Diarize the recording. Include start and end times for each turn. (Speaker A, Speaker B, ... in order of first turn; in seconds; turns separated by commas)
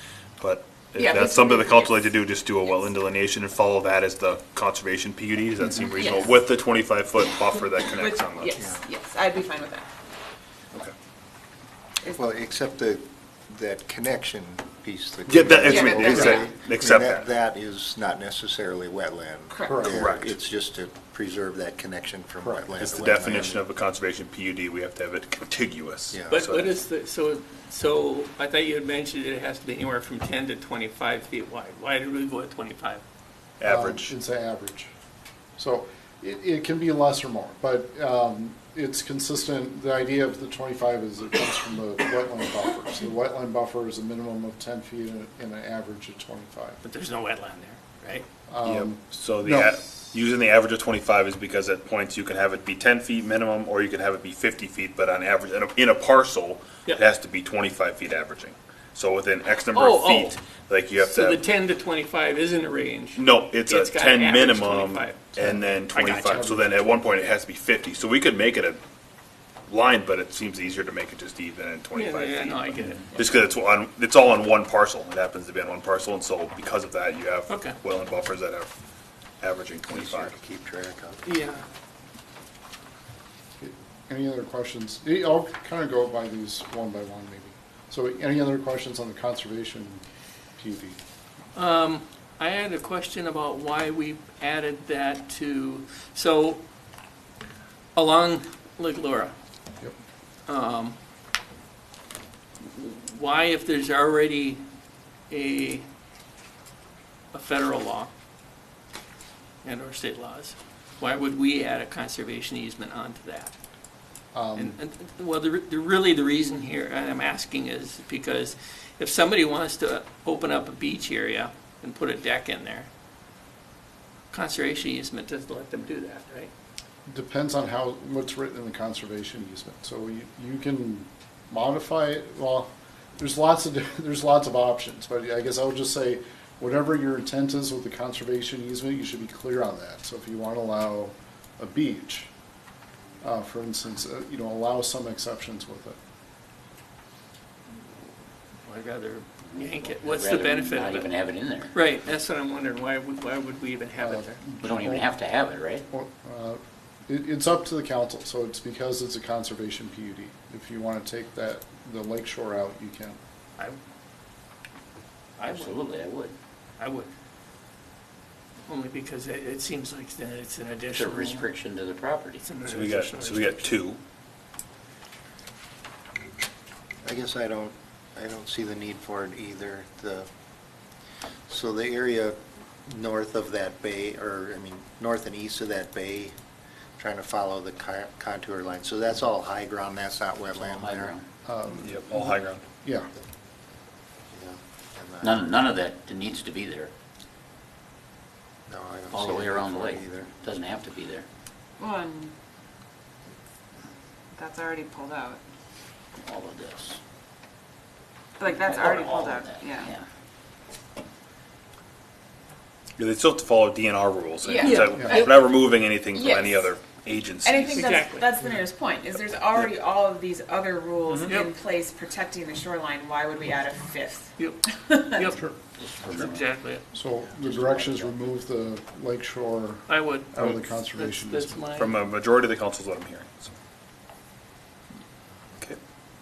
Speaker A: 0.4-8.6, Speaker B: 0.9-2.1, Speaker B: 5.8-6.3, Speaker B: 7.8-9.9, Speaker C: 8.6-8.8, Speaker C: 12.1-23.6, Speaker A: 15.3-17.3, Speaker B: 15.6-16.5, Speaker B: 19.5-19.9, Speaker D: 19.6-20.1, Speaker A: 19.9-20.3, Speaker A: 22.8-26.7, Speaker C: 26.1-26.5, Speaker E: 26.3-33.0, Speaker A: 33.6-34.1, Speaker D: 33.6-34.9, Speaker D: 35.6-46.8, Speaker E: 46.8-48.3, Speaker D: 48.5-49.8, Speaker A: 48.6-61.4, Speaker E: 59.7-60.4, Speaker E: 61.0-65.3, Speaker A: 63.2-68.8, Speaker D: 65.3-65.7, Speaker E: 65.9-66.6, Speaker D: 66.2-66.7, Speaker A: 69.7-78.7, Speaker E: 71.9-73.2, Speaker E: 77.5-77.8, Speaker A: 79.4-80.3, Speaker C: 79.9-81.3, Speaker E: 81.2-81.6, Speaker D: 83.6-90.0, Speaker D: 90.6-91.0, Speaker E: 91.5-96.6, Speaker E: 98.0-99.3, Speaker E: 100.5-101.0, Speaker E: 102.6-104.6, Speaker E: 105.3-105.9, Speaker E: 107.3-108.1, Speaker E: 109.6-113.5, Speaker D: 114.3-114.8, Speaker E: 114.6-122.9, Speaker E: 124.3-126.5, Speaker D: 127.1-142.3, Speaker D: 143.2-146.0, Speaker E: 148.7-151.2, Speaker F: 149.6-151.7, Speaker E: 151.7-154.5, Speaker D: 154.0-155.1, Speaker F: 154.6-155.8, Speaker D: 155.9-163.2, Speaker E: 165.4-165.7, Speaker F: 165.4-166.4, Speaker E: 166.8-167.1, Speaker E: 168.7-171.5, Speaker F: 170.9-172.6, Speaker E: 172.4-173.8, Speaker A: 172.6-174.0, Speaker C: 177.0-180.3, Speaker C: 181.5-186.3, Speaker C: 187.0-191.2, Speaker F: 190.7-191.3, Speaker D: 191.4-192.0, Speaker A: 191.8-192.6, Speaker D: 192.8-193.1, Speaker C: 194.3-195.4, Speaker F: 195.2-196.9, Speaker C: 198.7-200.3, Speaker F: 199.1-201.3, Speaker B: 201.8-202.3, Speaker B: 204.3-205.4, Speaker F: 206.2-207.0, Speaker B: 208.4-209.9, Speaker F: 208.6-210.1, Speaker A: 213.0-218.0, Speaker B: 214.4-216.8, Speaker E: 214.6-215.5, Speaker B: 217.4-225.3, Speaker E: 217.7-218.3, Speaker E: 224.4-225.4, Speaker F: 225.8-226.5, Speaker E: 226.0-226.8, Speaker D: 226.9-231.6, Speaker F: 227.4-228.2, Speaker E: 229.9-232.0, Speaker A: 231.8-233.5